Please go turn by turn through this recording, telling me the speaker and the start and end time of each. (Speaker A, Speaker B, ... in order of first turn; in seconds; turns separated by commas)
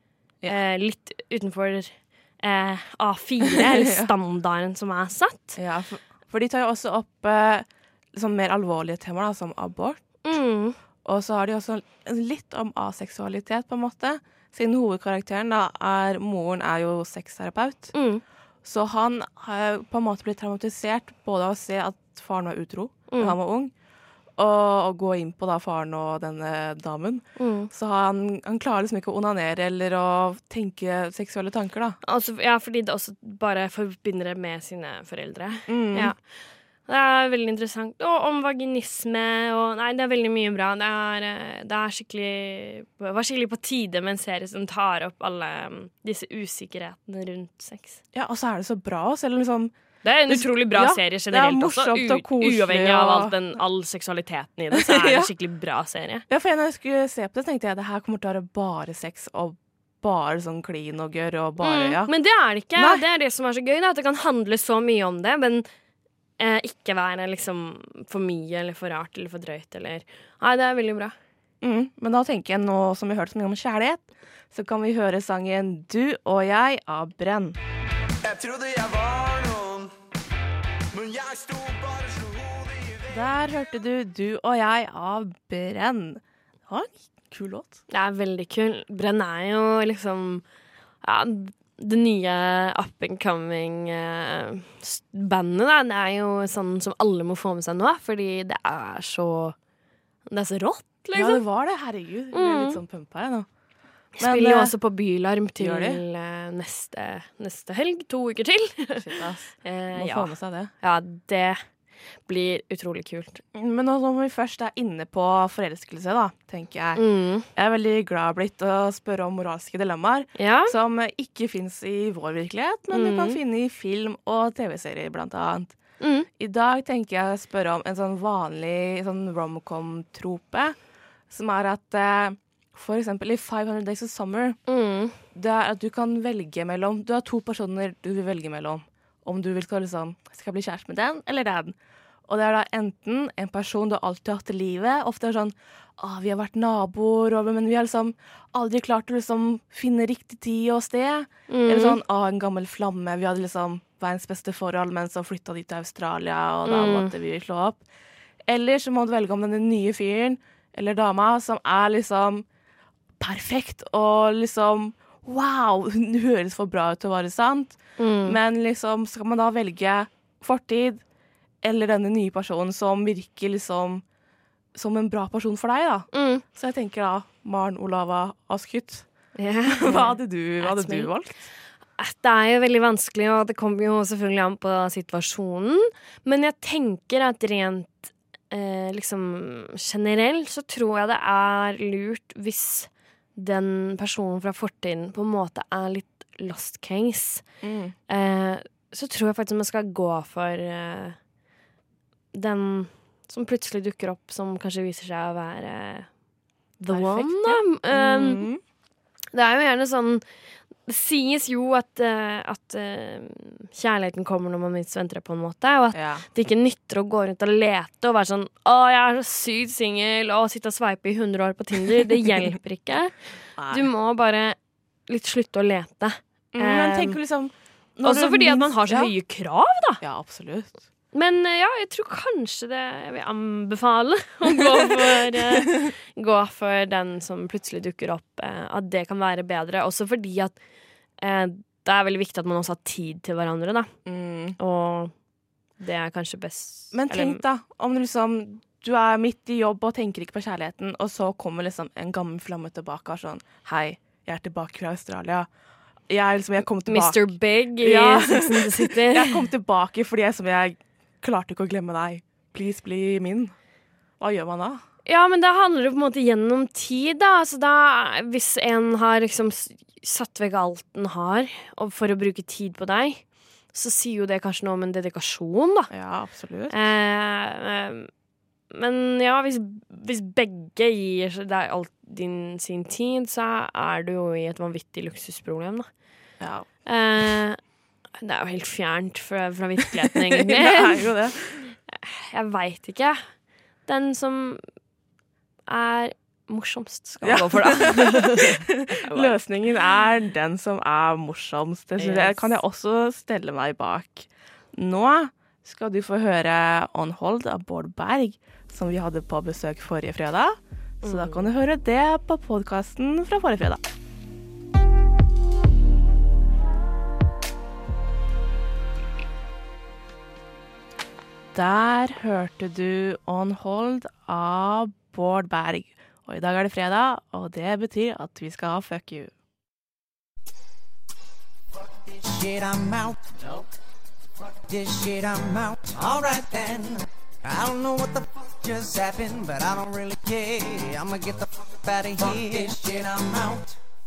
Speaker A: 0.5-5.6, Speaker B: 3.5-4.1, Speaker B: 5.6-10.0, Speaker A: 10.2-10.8, Speaker B: 11.0-17.9, Speaker A: 17.9-18.2, Speaker B: 18.6-23.7, Speaker A: 23.1-23.4, Speaker B: 24.4-32.0, Speaker A: 27.4-27.7, Speaker A: 32.0-36.2, Speaker B: 35.7-36.1, Speaker A: 36.9-48.0, Speaker B: 48.1-49.7, Speaker A: 50.0-56.2, Speaker B: 50.3-53.4, Speaker B: 54.7-55.3, Speaker B: 56.3-62.1, Speaker A: 61.6-65.7, Speaker B: 62.8-63.0, Speaker A: 66.4-71.1, Speaker B: 71.6-77.6, Speaker C: 78.2-79.9, Speaker C: 80.9-83.3, Speaker B: 83.1-87.8, Speaker A: 87.9-90.4, Speaker A: 91.0-99.5, Speaker A: 100.3-101.4, Speaker B: 101.1-103.5, Speaker A: 102.3-102.8, Speaker A: 104.2-109.0, Speaker B: 104.2-104.7, Speaker B: 105.6-106.0, Speaker B: 109.0-110.7, Speaker A: 109.6-111.6, Speaker A: 112.3-113.4, Speaker B: 113.5-117.0, Speaker A: 117.0-117.5, Speaker B: 117.5-125.8, Speaker A: 120.4-120.7, Speaker A: 122.9-123.4, Speaker A: 126.0-126.3, Speaker B: 126.4-130.8, Speaker B: 131.3-134.6, Speaker A: 134.7-135.1, Speaker B: 135.3-141.8, Speaker B: 142.3-157.8, Speaker A: 151.5-152.0, Speaker A: 156.6-157.1, Speaker B: 158.5-162.4, Speaker B: 163.2-171.0, Speaker A: 168.0-168.4, Speaker B: 171.6-174.0, Speaker B: 174.7-179.1, Speaker A: 176.1-176.4, Speaker A: 179.4-181.1, Speaker B: 179.7-181.5, Speaker A: 182.0-197.4, Speaker B: 197.6-197.9, Speaker A: 198.1-201.2, Speaker A: 202.3-206.1, Speaker A: 206.8-208.4, Speaker B: 206.9-208.6, Speaker A: 209.3-210.2, Speaker A: 210.8-223.1, Speaker B: 215.9-216.2, Speaker B: 223.6-223.9, Speaker A: 223.7-224.6, Speaker A: 225.1-227.2, Speaker B: 226.5-229.1, Speaker A: 228.0-230.0, Speaker B: 230.0-230.8, Speaker A: 231.1-240.5, Speaker B: 234.4-235.9, Speaker A: 241.2-243.9, Speaker B: 244.1-244.6, Speaker A: 244.6-245.1, Speaker A: 245.8-247.4, Speaker B: 246.9-255.5, Speaker B: 256.1-263.5, Speaker A: 256.9-259.4, Speaker B: 264.2-264.8, Speaker A: 265.1-273.2, Speaker A: 273.7-275.9, Speaker B: 275.9-276.8, Speaker A: 276.7-278.1, Speaker A: 278.7-285.9, Speaker B: 286.4-286.7, Speaker A: 286.9-287.6, Speaker A: 288.2-291.1, Speaker B: 290.1-291.6, Speaker A: 291.9-293.2, Speaker A: 293.9-294.6, Speaker A: 295.7-299.3, Speaker B: 297.2-313.8, Speaker A: 302.0-302.6, Speaker A: 311.0-311.5, Speaker B: 321.5-329.3, Speaker D: 331.7-333.7, Speaker D: 334.4-343.7